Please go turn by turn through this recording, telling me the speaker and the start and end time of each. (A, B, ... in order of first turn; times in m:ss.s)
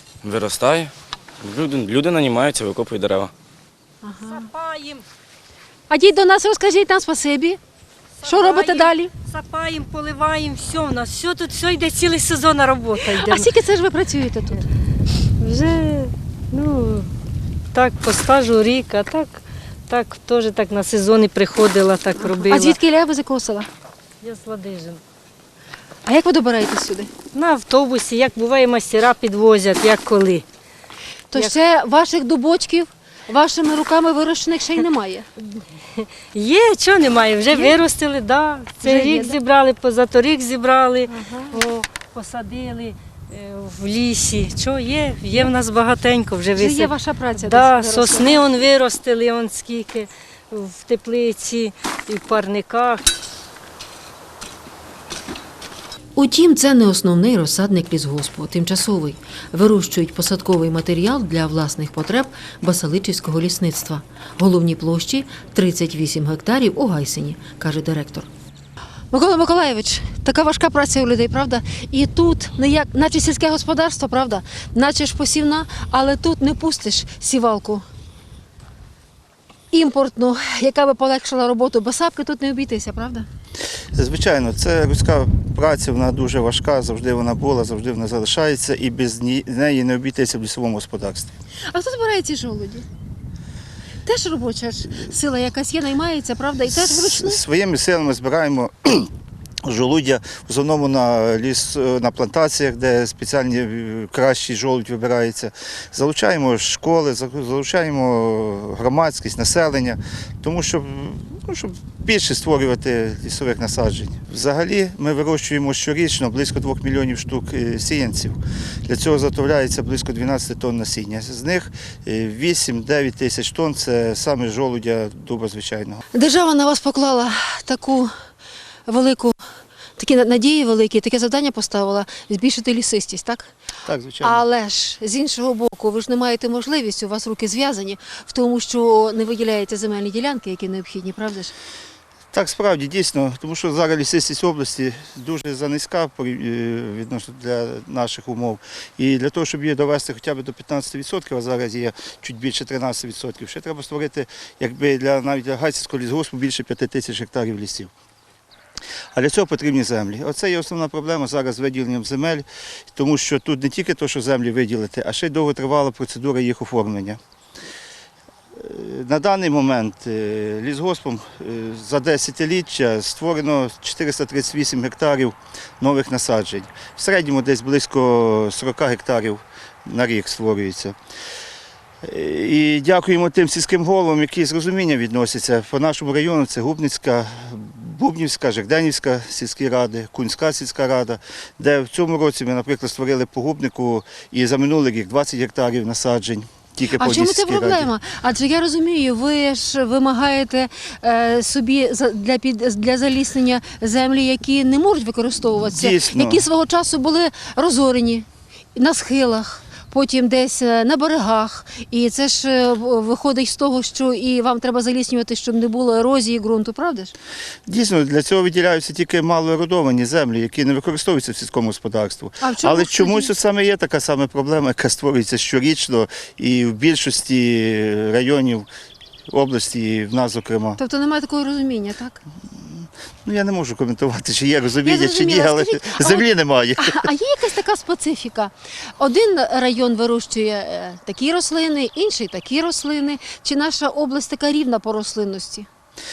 0:00.2-0:03.3 A
0:04.0-0:04.4 B
0:04.2-0:05.0 C
0:05.9-0:07.6 B
0:08.2-0:13.5 C
0:08.2-0:09.1 B
0:13.1-0:14.7 B
0:15.4-0:17.1 C
0:17.7-0:22.8 C
0:22.5-0:23.7 B
0:24.2-0:25.0 C
0:26.1-0:27.1 B
0:27.3-0:30.5 C
0:31.3-0:35.3 B
0:36.0-0:53.1 C
0:37.5-0:37.8 B
0:38.8-0:39.4 B
0:41.2-0:41.5 B
0:46.6-0:48.4 B
0:56.2-1:08.3 B
1:09.1-1:17.8 B
1:19.7-1:23.3 B
1:24.0-1:31.4 D
1:31.7-1:32.9 B
1:34.1-1:37.4 B
1:36.7-1:39.1 D
1:39.6-2:06.0 D
2:06.1-2:08.1 B
2:08.9-2:09.4 B
2:10.0-2:13.5 B
2:13.9-2:14.4 D
2:14.2-2:21.5 B
2:22.3-2:37.9 D
2:39.2-2:47.2 D
2:48.6-3:01.0 D
3:02.0-3:17.9 D
3:17.0-3:37.1 B
3:25.6-3:26.4 D
3:37.7-3:48.7 D
3:42.4-3:43.3 B
3:49.3-3:50.8 D
3:50.8-3:52.2 B
3:52.6-3:57.1 D
3:54.8-3:56.3 B
3:56.8-4:05.7 B